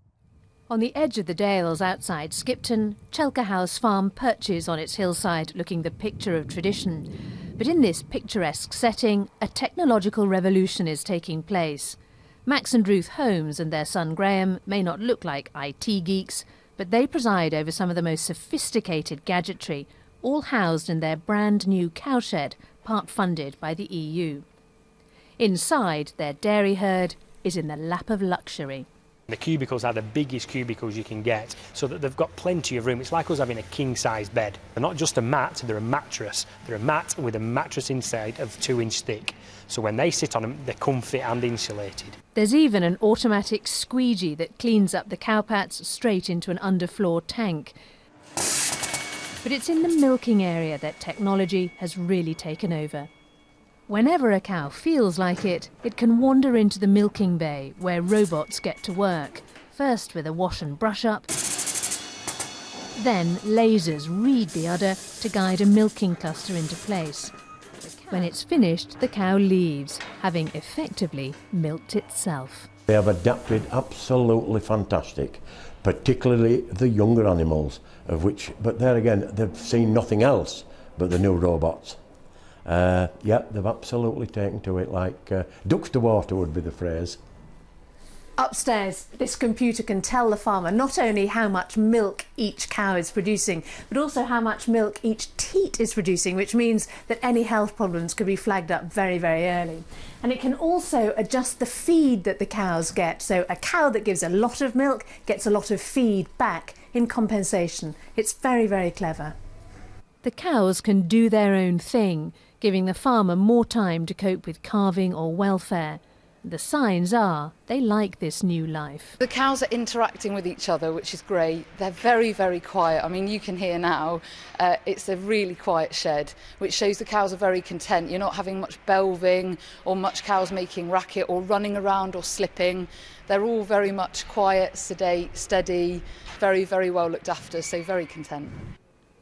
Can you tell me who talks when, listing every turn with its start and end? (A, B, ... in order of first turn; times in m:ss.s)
0:00.7-0:24.4 A
0:25.4-0:28.9 A
0:29.3-0:42.2 B
0:42.4-0:47.7 A
0:49.4-0:53.1 A
0:53.9-1:01.3 A
1:03.0-1:07.3 A
1:08.1-1:12.7 A
1:12.9-1:22.0 C
1:22.6-1:27.2 C
1:28.4-1:49.4 A
1:50.2-1:59.2 A
1:59.2-2:18.6 D